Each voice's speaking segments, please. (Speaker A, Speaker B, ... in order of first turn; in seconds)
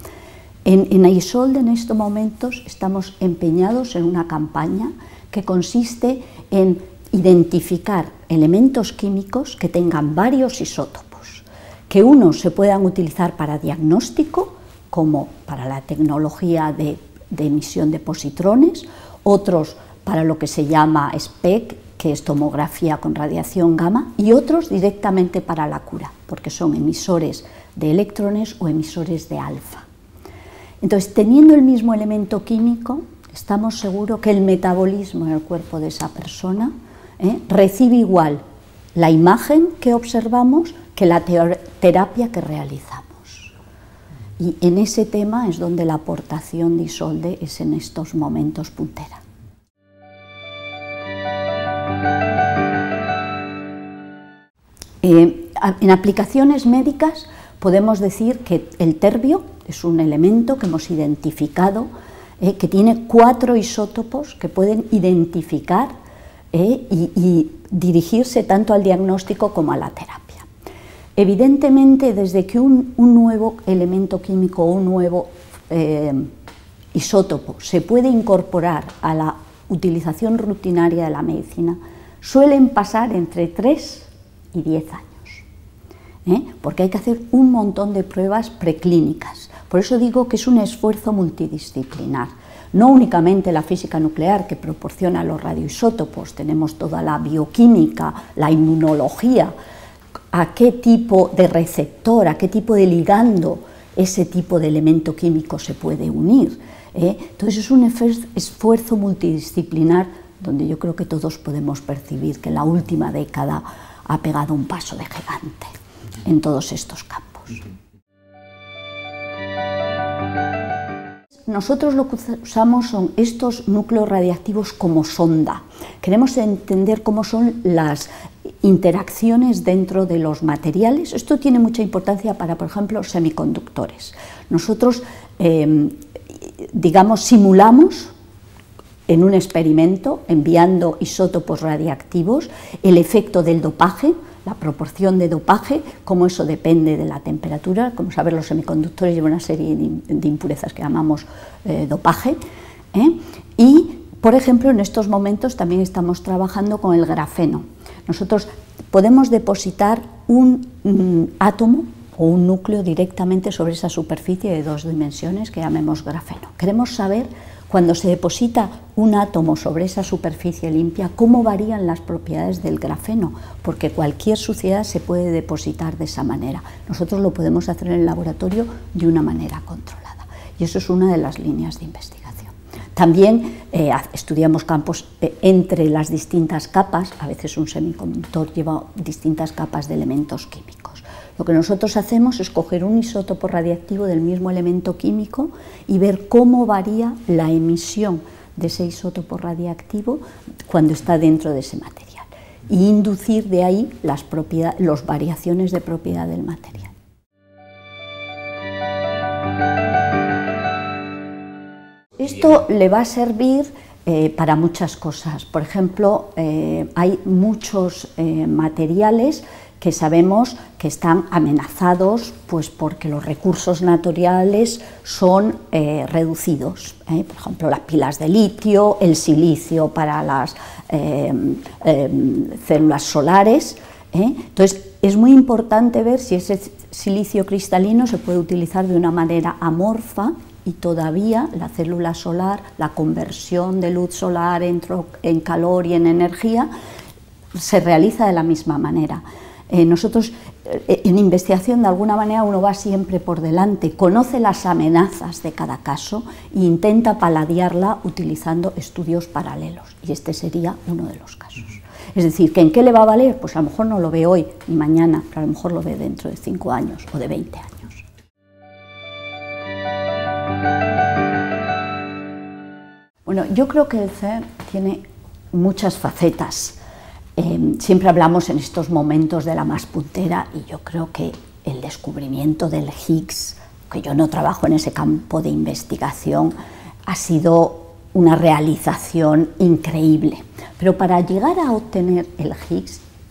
Speaker A: 0.7-29.9, 30.8-38.4, 39.0-43.5, 44.4-49.2, 55.0-61.9, 62.4-65.9, 66.5-70.5, 71.2-76.3, 76.9-85.5, 86.3-99.5, 100.3-115.7, 116.2-117.7, 121.5-128.1, 128.6-138.1, 139.1-152.4, 152.9-206.9, 212.2-246.7, 247.5-268.0, 273.3-276.8, 277.4-286.6, 287.1-293.0